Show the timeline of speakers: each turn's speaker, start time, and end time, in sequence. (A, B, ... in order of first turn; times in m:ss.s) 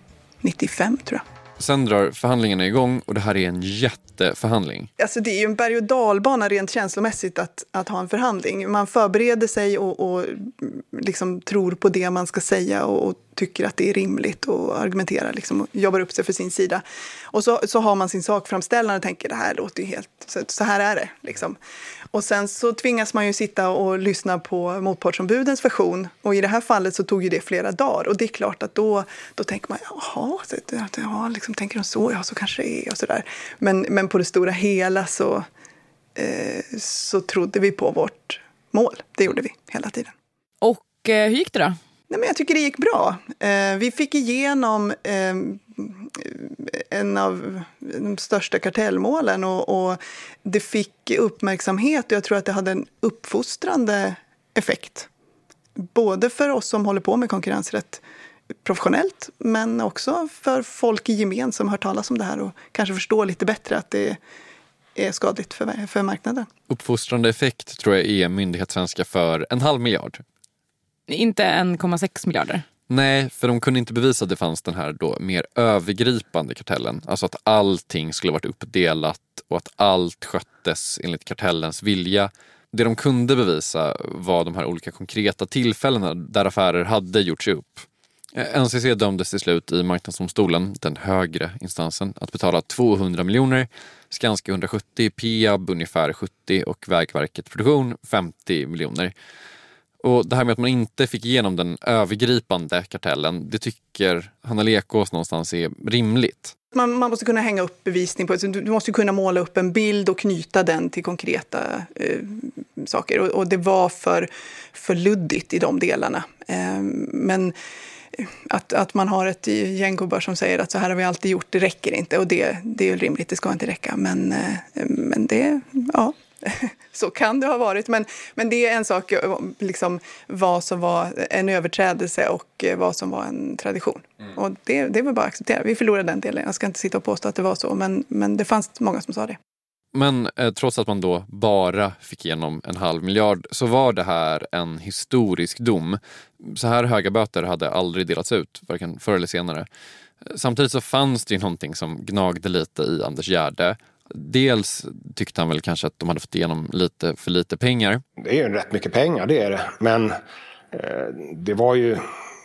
0:00.4-0:01.2 A
0:01.6-0:04.9 B
0:05.0-0:21.6 A
0:22.1-0:35.4 A
0:36.2-0:40.1 A
0:40.6-0:41.8 C
0:42.1-0:55.1 A
0:55.8-0:58.0 A
0:58.6-1:04.2 A
1:05.0-1:06.5 A
1:06.7-1:10.2 B
1:11.1-1:12.6 C
1:12.9-1:39.1 B
1:40.0-1:46.5 B
1:46.7-1:57.5 A
1:58.1-2:19.4 A
2:19.9-2:29.7 B
2:30.2-2:38.0 B
2:38.2-2:40.2 D
2:40.7-2:42.0 D